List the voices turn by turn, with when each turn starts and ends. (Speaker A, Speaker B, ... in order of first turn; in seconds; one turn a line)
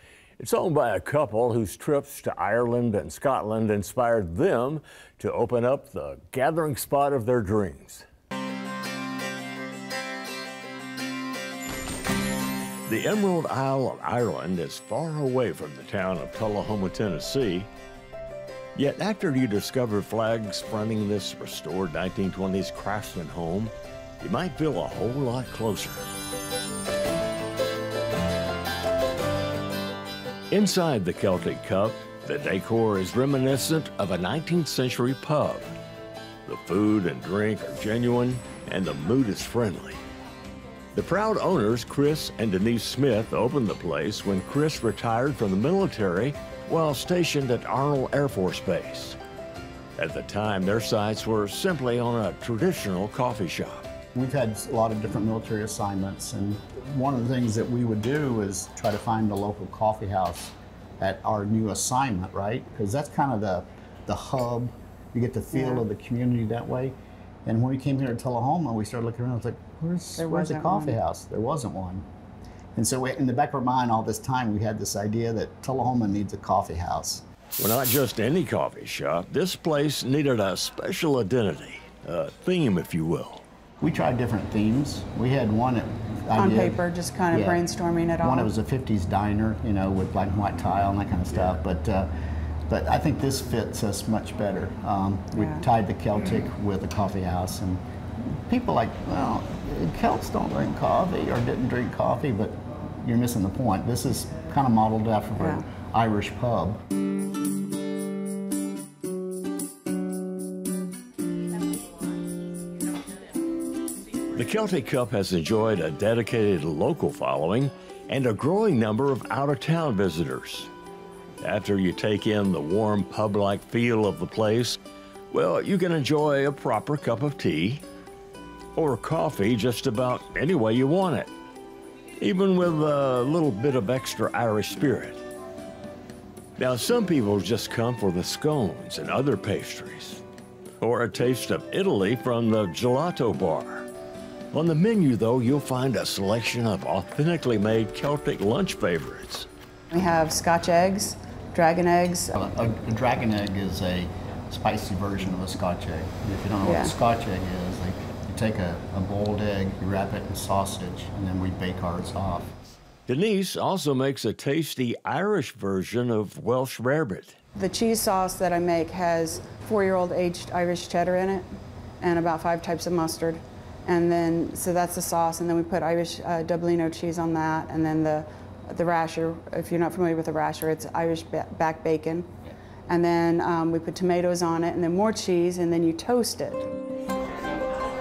Speaker A: 0.4-8.1
Speaker A: 12.9-17.7
Speaker A: 18.8-26.1
Speaker A: 30.5-35.7
Speaker A: 36.5-40.0
Speaker A: 40.9-49.2
Speaker A: 50.0-53.9
Speaker B: 54.1-66.9
Speaker C: 65.5-65.8
Speaker B: 67.5-72.0
Speaker C: 70.2-71.0
Speaker B: 72.7-77.2
Speaker A: 77.6-83.4
Speaker B: 83.8-86.8
Speaker C: 86.3-88.5
Speaker B: 87.3-87.6
Speaker B: 88.2-92.1
Speaker B: 92.7-97.8
Speaker C: 95.3-95.6
Speaker B: 98.5-106.8
Speaker C: 105.4-105.7
Speaker A: 114.3-120.7
Speaker A: 121.4-124.8
Speaker A: 125.3-127.8
Speaker A: 128.8-131.3
Speaker A: 132.2-135.2
Speaker A: 136.6-140.2
Speaker A: 140.8-143.9
Speaker A: 144.5-149.5
Speaker C: 149.9-152.3
Speaker B: 152.3-162.5
Speaker C: 156.6-156.9
Speaker A: 163.1-167.3
Speaker C: 167.5-171.5
Speaker C: 172.0-182.3
Speaker C: 182.9-186.7